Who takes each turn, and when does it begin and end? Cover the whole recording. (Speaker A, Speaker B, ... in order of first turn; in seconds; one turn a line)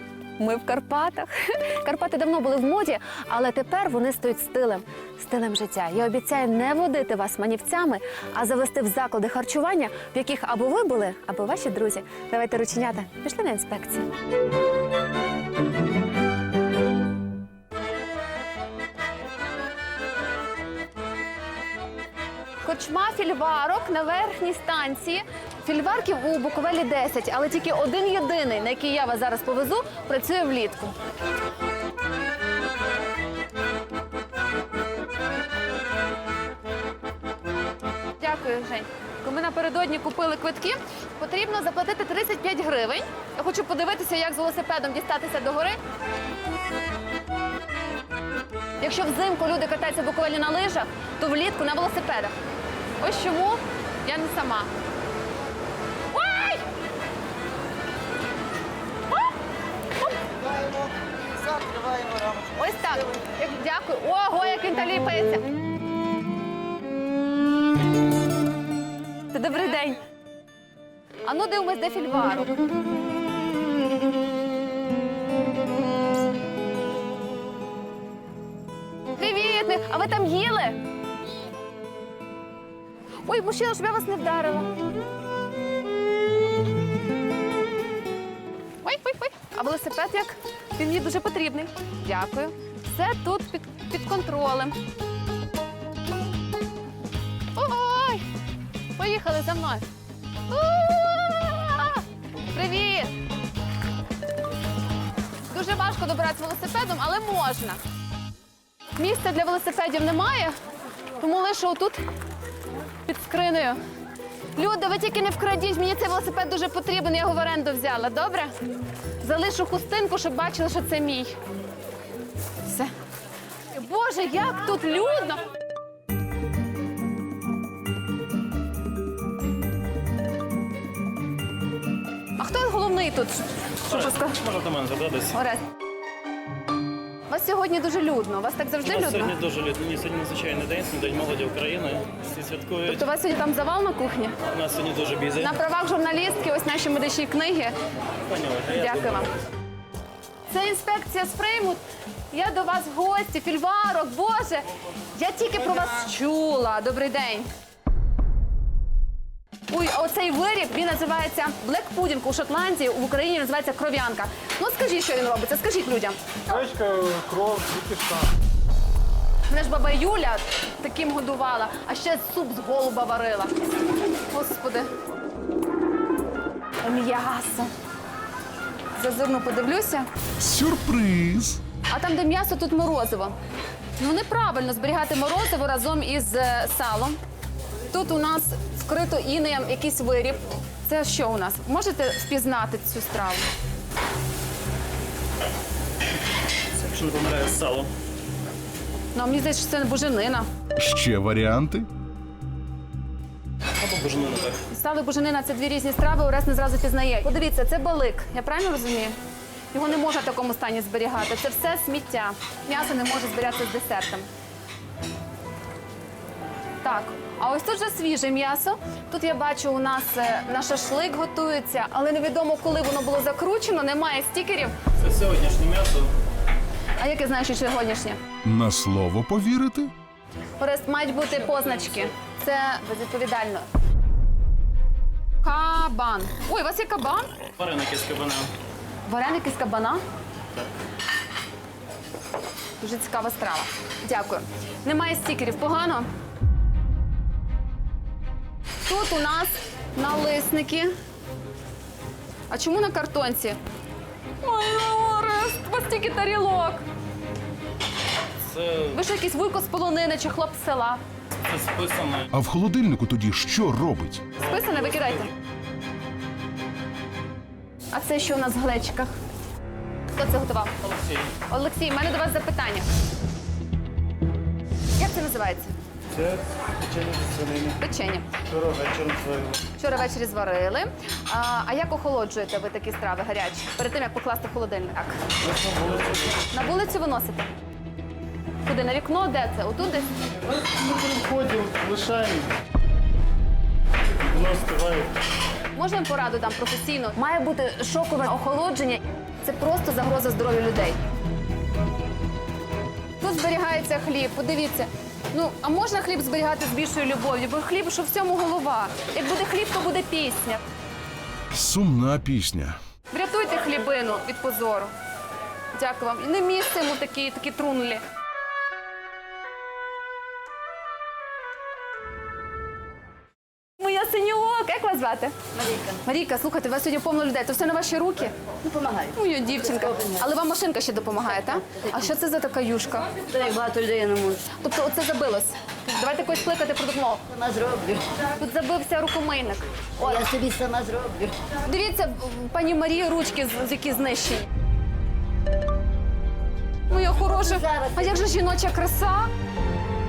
Speaker A: 0.4-14.1
Speaker A: 22.6-30.9
Speaker A: 38.2-45.8
Speaker A: 48.8-52.3
Speaker A: 53.0-54.7
Speaker A: 56.1-56.6
Speaker A: 62.5-65.4
Speaker A: 69.3-70.0
Speaker A: 71.2-72.6
Speaker A: 79.2-80.8
Speaker A: 83.2-84.7
Speaker A: 88.8-94.8
Speaker A: 97.5-98.2
Speaker A: 99.0-99.8
Speaker A: 100.5-103.1
Speaker A: 105.5-107.8
Speaker A: 109.0-110.5
Speaker A: 111.2-112.0
Speaker A: 113.0-113.8
Speaker A: 114.5-118.5
Speaker A: 119.2-121.4
Speaker A: 122.6-122.9
Speaker A: 123.7-125.4
Speaker A: 132.4-134.3
Speaker B: 133.9-135.3
Speaker A: 135.3-135.6
Speaker A: 137.3-139.4
Speaker B: 138.8-143.0
Speaker A: 142.8-144.3
Speaker B: 144.5-145.5
Speaker A: 145.4-147.7
Speaker B: 148.3-149.0
Speaker A: 148.7-149.3
Speaker A: 150.5-157.5
Speaker A: 159.7-166.2
Speaker C: 166.5-168.3
Speaker A: 169.5-173.5
Speaker A: 174.3-174.9
Speaker A: 176.8-177.7
Speaker A: 178.9-180.1
Speaker D: 180.4-181.6
Speaker A: 181.9-183.4
Speaker A: 184.0-187.2
Speaker A: 187.9-193.4
Speaker B: 196.7-197.9
Speaker A: 199.1-200.5
Speaker D: 200.8-201.9
Speaker B: 203.8-204.6
Speaker A: 204.7-209.2
Speaker A: 209.7-214.3
Speaker A: 216.8-224.7
Speaker B: 225.0-226.1
Speaker A: 227.0-228.2
Speaker D: 228.4-229.9
Speaker A: 230.6-233.7
Speaker A: 235.4-237.3
Speaker B: 237.6-238.5
Speaker A: 239.0-240.0
Speaker A: 242.8-246.1
Speaker A: 248.8-250.9
Speaker A: 252.5-253.6
Speaker A: 254.4-256.8
Speaker B: 258.4-258.9
Speaker A: 258.9-261.0
Speaker B: 261.4-262.3
Speaker D: 262.3-264.2
Speaker A: 264.4-265.3
Speaker B: 264.6-265.1
Speaker A: 267.9-269.1
Speaker A: 270.1-270.7
Speaker A: 271.5-272.9
Speaker A: 275.0-275.7
Speaker C: 276.1-277.8
Speaker A: 277.8-278.2
Speaker C: 278.5-279.6
Speaker A: 279.8-285.2
Speaker C: 285.5-286.2
Speaker A: 286.5-287.5
Speaker A: 288.6-290.1
Speaker C: 290.7-292.5
Speaker C: 294.3-295.1
Speaker A: 295.7-301.0
Speaker A: 303.2-310.6
Speaker D: 311.5-312.8
Speaker A: 313.1-314.9
Speaker A: 315.7-318.0
Speaker A: 323.8-325.3
Speaker A: 326.0-328.3
Speaker A: 329.1-333.2
Speaker E: 333.4-334.4
Speaker A: 334.2-337.2
Speaker E: 337.5-338.0
Speaker A: 338.3-340.6
Speaker E: 340.4-341.3
Speaker A: 341.6-344.5
Speaker A: 346.9-349.3